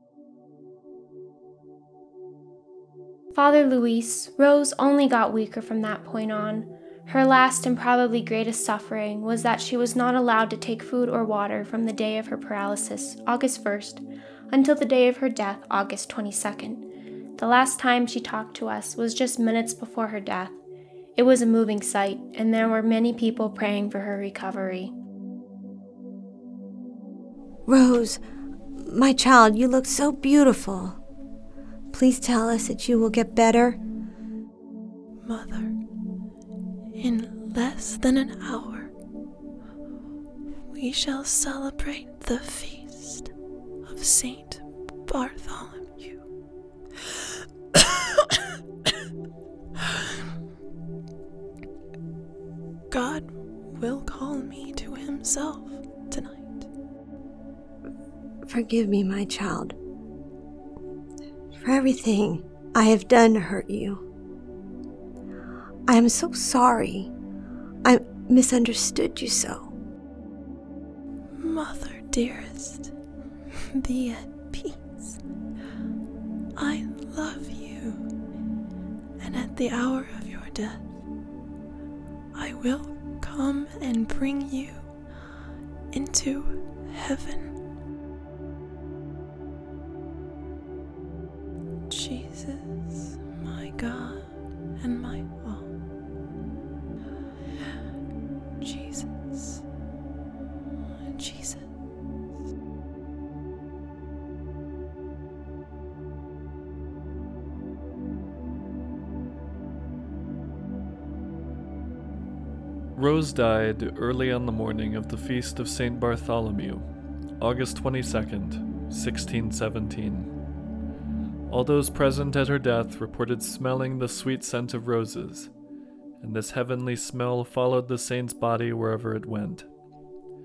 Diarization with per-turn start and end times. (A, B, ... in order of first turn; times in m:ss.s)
0:03.3-0:20.6 A
0:21.2-0:24.9 A
0:27.7-0:28.2 B
0:28.8-0:31.0 B
0:31.9-0:33.8 B
0:35.2-0:35.7 C
0:37.0-0:38.9 C
0:40.7-0:43.3 C
0:43.9-0:46.2 C
0:52.9-0:56.6 C
0:58.5-0:59.8 B
1:01.6-1:04.0 B
1:05.9-1:07.1 B
1:07.8-1:09.7 B
1:11.4-1:12.9 C
1:13.8-1:15.2 C
1:16.6-1:18.0 C
1:19.2-1:20.9 C
1:22.4-1:24.8 C
1:25.9-1:27.5 C
1:31.9-1:34.2 C
1:34.8-1:35.7 C
1:38.6-1:39.6 C
1:41.2-1:41.6 C
1:53.0-1:56.8 D
1:57.4-2:00.3 D
2:01.5-2:05.5 D
2:06.2-2:09.7 D